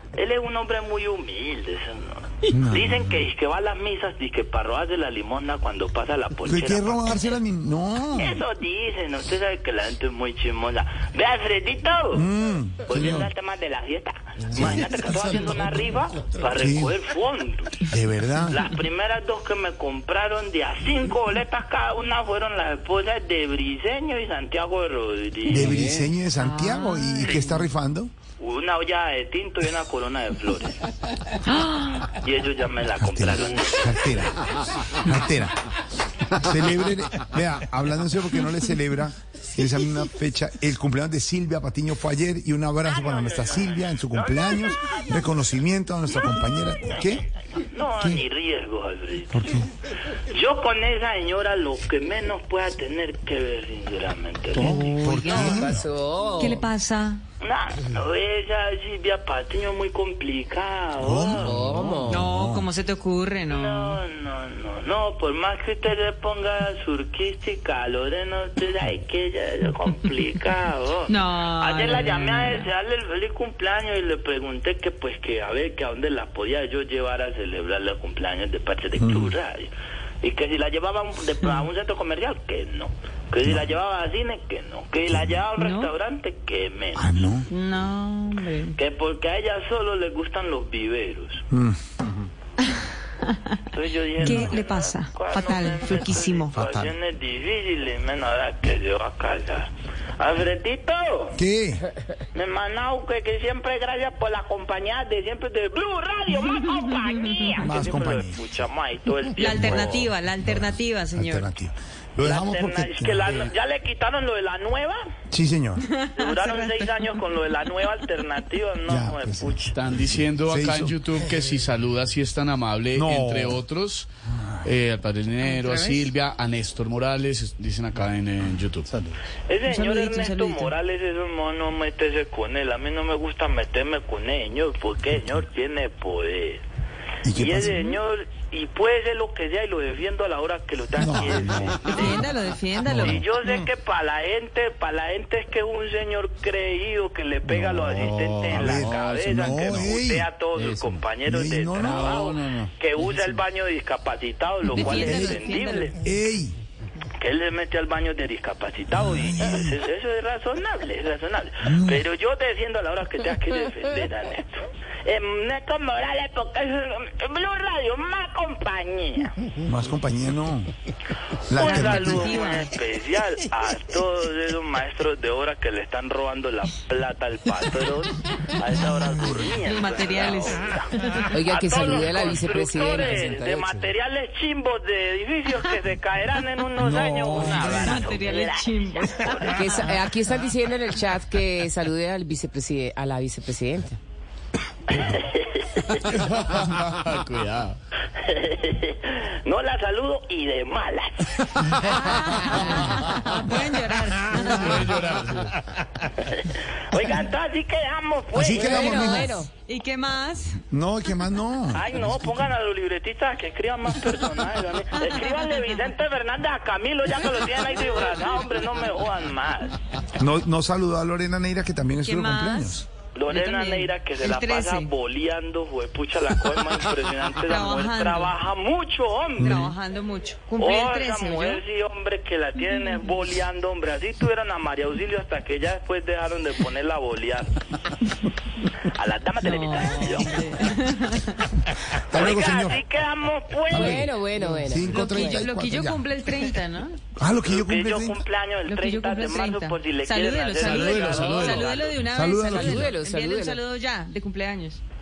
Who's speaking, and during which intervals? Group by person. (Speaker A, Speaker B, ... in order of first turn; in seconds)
Speaker A: 0.2-7.2, 8.2-12.3, 12.9-17.9, 18.5-25.9, 28.4-30.8, 32.1-34.2, 42.9-45.2, 46.2-49.6, 50.3-54.8, 57.4-61.6, 63.5-79.7, 80.2-87.2, 88.8-91.5, 93.7-101.4, 102.3-110.1, 112.2-115.0, 116.2-119.7, 129.5-136.6, 137.3-142.2, 142.9-156.0, 157.2-169.3, 171.5-189.7, 194.9-196.1, 198.2-201.9, 206.3-209.0, 211.7-219.8, 223.2-229.7, 230.6-237.6, 238.8-240.4, 242.1-244.1, 247.4-252.0
Speaker B: 2.5-3.2, 6.5-8.4, 12.1-13.3, 14.5-15.1, 16.5-16.9, 17.9-18.6, 25.5-28.1, 33.0-35.6, 36.2-47.2, 49.3-49.7, 54.5-55.8, 61.0-62.7, 79.0-79.3, 85.1-85.4, 87.0-87.5, 91.5-92.0, 94.2-94.5, 96.5-96.9, 101.3-101.8, 107.6-108.4, 109.4-113.3, 115.3-115.9, 118.9-121.0, 122.9-123.6, 124.4-124.7, 137.2-138.0, 141.0-142.2, 142.8-143.2, 147.5-150.3, 151.2-152.7, 154.8-155.4, 156.0-156.6, 158.9-159.8, 161.6-162.1, 169.6-170.7, 171.5-172.3, 186.8-188.2, 208.3-209.4, 210.7-212.1, 220.2-222.9, 229.4-229.7, 242.1-242.8, 243.7-246.1, 247.2-248.2, 252.1-252.9
Speaker C: 26.3-27.6, 31.5-32.1, 54.6-55.7, 56.4-57.2, 62.1-64.0, 71.1-72.7, 85.6-85.9, 87.5-88.8, 93.2-93.6, 94.2-96.6, 106.8-107.7, 109.4-111.5, 115.9-117.1, 125.4-126.1, 129.6-130.7, 141.8-143.2, 154.7-156.0, 171.6-172.7, 179.6-180.7, 187.6-190.0, 201.8-205.0, 209.6-210.6, 222.0-224.9, 227.4-228.3, 229.4-231.6, 239.4-241.5, 244.8-247.0, 248.7-254.8
Speaker D: 55.2-56.7, 61.4-62.3, 181.3-183.4, 189.5-194.0, 208.5-209.5, 243.7-245.5, 252.5-253.6
Speaker E: 119.8-124.1, 124.6-128.9, 196.0-197.8, 204.3-205.6, 250.6-251.7